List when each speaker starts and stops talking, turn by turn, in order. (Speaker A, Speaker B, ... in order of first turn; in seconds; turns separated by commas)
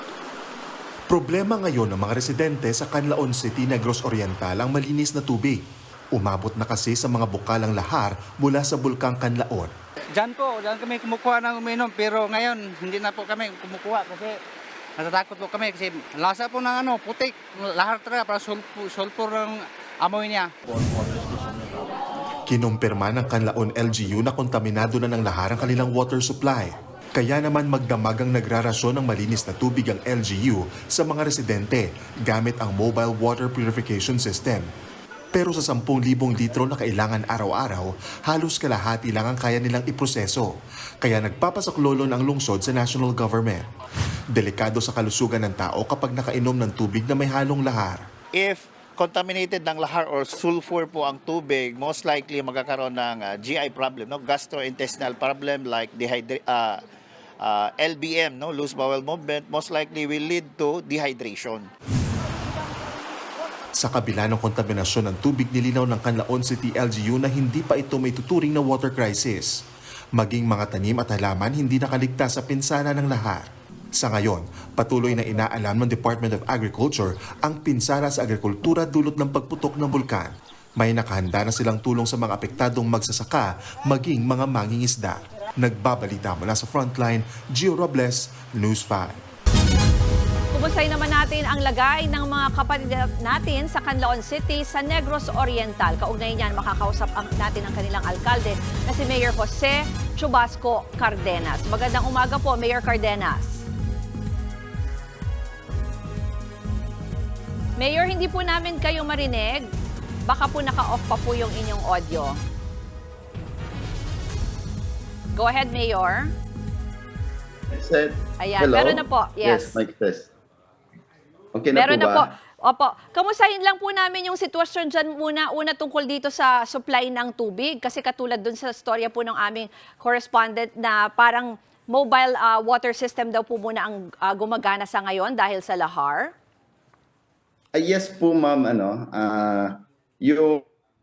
Speaker A: 1.1-9.7, Speaker B: 10.1-14.4, Speaker B: 15.0-20.5, Speaker A: 22.5-34.7, Speaker A: 35.3-43.7, Speaker A: 44.3-48.0, Speaker C: 48.3-56.8, Speaker C: 57.4-61.7, Speaker A: 63.7-69.6, Speaker A: 70.1-89.2, Speaker D: 90.5-103.6, Speaker D: 107.8-109.7, Speaker D: 110.2-112.4, Speaker D: 115.3-116.3, Speaker E: 117.7-120.3, Speaker D: 118.4-119.8, Speaker E: 121.5-122.2, Speaker D: 121.7-136.3, Speaker E: 137.7-140.6